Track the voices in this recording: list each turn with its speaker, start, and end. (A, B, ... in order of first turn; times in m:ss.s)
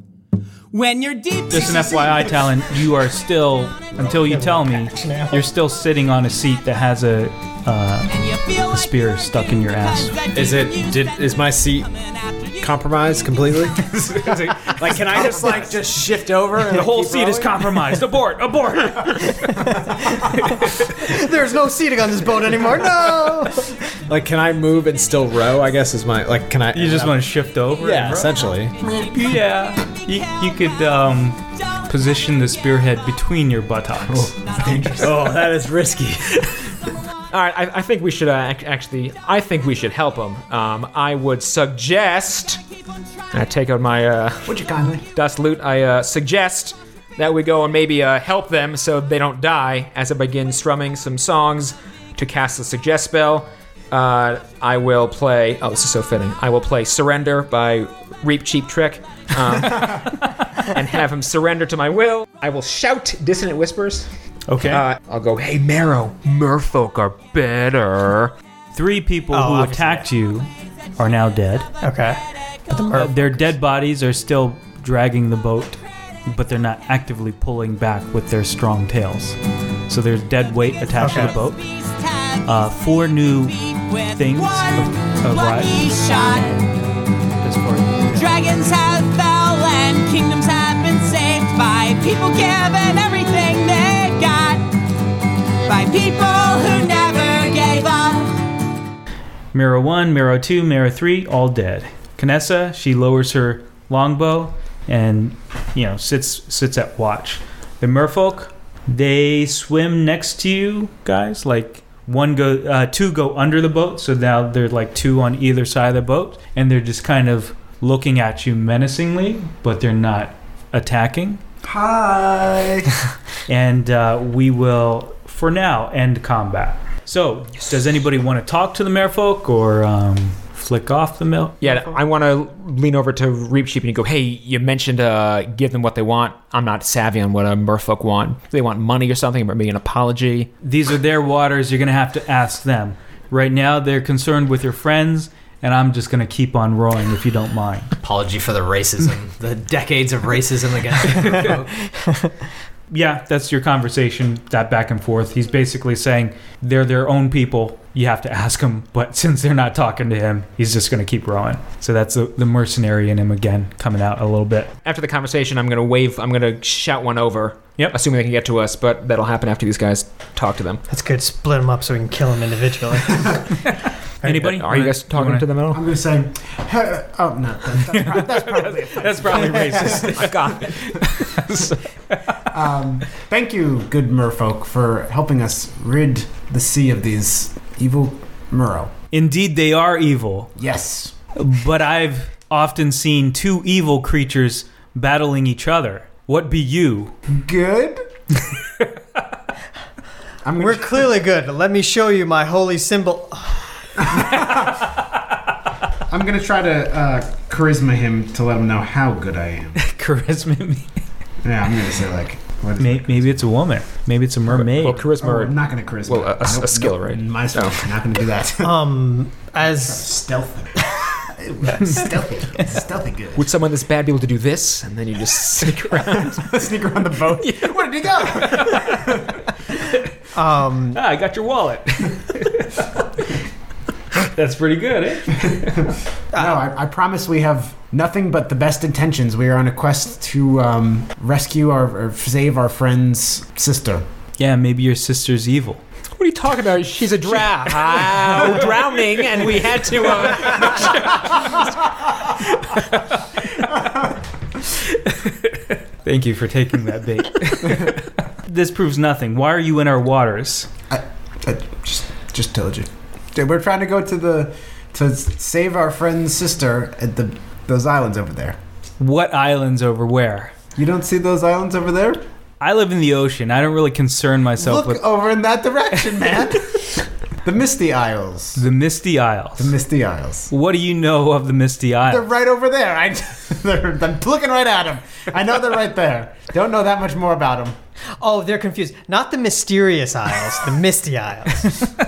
0:00.7-0:02.4 A
0:01.5-0:10.2 B
0:04.1-0:05.4 C
0:08.1-0:08.9 A
0:10.0-0:11.0 A
0:10.3-0:11.9 D
0:10.4-0:11.1 E
0:12.0-0:12.6 A
0:12.6-0:13.9 D
0:13.9-0:14.6 B
0:14.6-0:15.8 E
0:14.6-0:17.7 D
0:16.7-0:19.7 B
0:20.3-0:21.2 B
0:21.0-0:23.9 C
0:24.1-0:27.1 D
0:25.1-0:26.8 E
0:26.7-0:34.3 B
0:27.8-0:28.6 E
0:28.1-0:28.8 D
0:34.1-0:35.1 F
0:34.7-0:36.6 D
0:35.0-0:35.6 E
0:37.3-0:42.6 F
0:43.3-1:08.3 F
0:44.4-0:45.0 D
1:04.5-1:04.8 B
1:08.7-1:11.7 B
1:09.3-1:10.1 C
1:11.8-1:13.3 C
1:12.9-1:21.7 B
1:21.0-1:21.4 C
1:21.8-1:22.4 A
1:22.4-1:26.0 B
1:23.8-1:26.7 A
1:27.4-1:28.3 B
1:28.1-1:34.8 A
1:35.6-1:38.4 A
1:39.5-2:01.4 B
2:01.6-2:02.9 D
2:03.4-2:11.6 B
2:11.6-2:20.5 F
2:20.6-2:27.9 B
2:28.0-2:31.7 E
2:32.9-2:44.7 B
2:44.8-2:50.8 F
2:50.9-2:53.6 C
2:54.2-2:55.5 B
2:54.2-2:55.8 F
2:55.7-3:01.0 D
2:57.9-3:00.5 B
2:59.9-3:01.5 F
3:01.0-3:02.4 B
3:02.5-3:08.9 D
3:09.1-3:10.5 B
3:10.6-3:11.1 D
3:11.4-3:17.2 B
3:17.3-3:18.0 D
3:18.5-3:18.9 B
3:20.4-3:20.9 D
3:20.6-3:24.6 C
3:24.1-3:24.5 D
3:26.1-3:29.8 D
3:29.8-3:31.0 B
3:31.4-3:33.4 D
3:32.8-3:35.0 B
3:34.5-3:35.6 F
3:35.2-3:38.7 D
3:36.1-3:37.9 F
3:38.6-3:40.1 C
3:39.6-3:43.5 D
3:43.4-3:46.5 F
3:46.1-3:49.3 D
3:47.4-3:48.9 F
3:50.3-3:51.0 C
3:50.9-3:53.0 B
3:54.2-3:55.8 B
3:55.4-4:04.1 D
4:04.4-4:05.8 B
4:06.2-4:11.1 F
4:08.0-4:08.6 B
4:10.8-4:11.1 B
4:13.7-4:14.1 D
4:16.0-4:20.7 B
4:20.9-4:28.6 D
4:29.0-4:30.5 B
4:30.8-4:32.2 D
4:32.6-4:35.0 B
4:34.6-4:38.6 D
4:38.6-4:39.8 B
4:39.6-4:40.5 D
4:40.5-4:42.2 B
4:42.1-4:47.8 D
4:48.2-4:51.9 C